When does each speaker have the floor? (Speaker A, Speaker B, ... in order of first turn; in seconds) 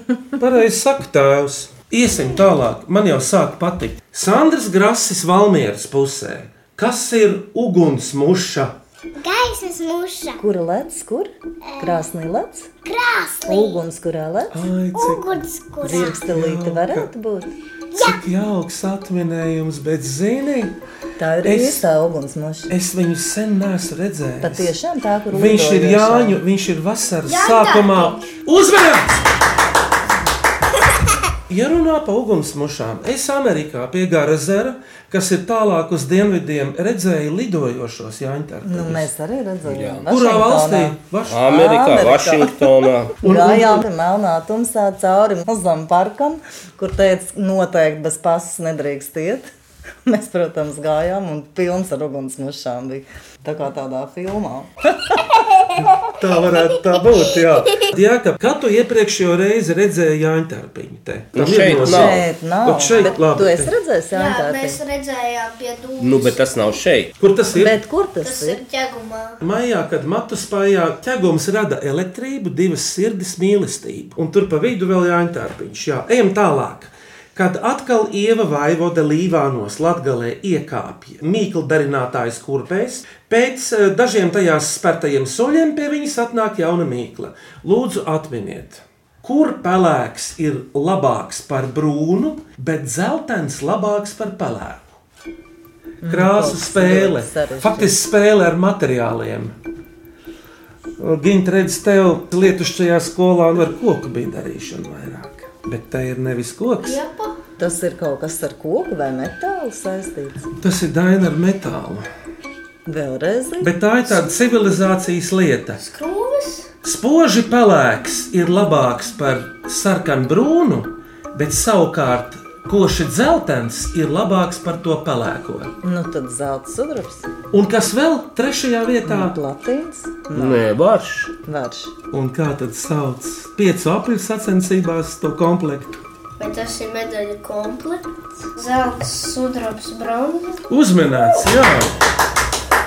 Speaker A: 0.4-8.8, 14.5-17.1, 17.9-20.8, 21.4-21.8, 22.7-24.7, 25.3-29.2, 31.5-39.1, 40.1-41.5, 43.2-43.8, 56.2-63.7, 67.2-67.8, 69.4-95.0, 96.1-99.5, 101.0-107.0, 110.6-112.1, 113.6-115.8, 116.8-125.7, 127.5-129.4, 132.1-136.0, 140.7-142.0
Speaker B: 9.2-10.4, 11.6-12.1, 12.8-13.8, 14.9-16.2, 17.9-18.2
Speaker C: 10.4-12.7, 13.5-14.7, 15.8-17.5, 21.2-22.7, 24.4-26.4, 38.6-49.5, 50.1-55.2, 61.7-64.8, 67.5-68.6, 96.0-98.0, 107.6-110.5, 112.9-113.7, 125.8-127.3, 129.1-130.6, 131.4-131.9
Speaker D: 27.3-28.4, 64.1-66.4, 68.2-69.4, 106.8-107.3, 115.8-116.7, 136.4-140.6
Speaker E: 39.7-40.1, 41.3-43.2, 61.3-62.2, 66.0-67.1, 130.3-131.3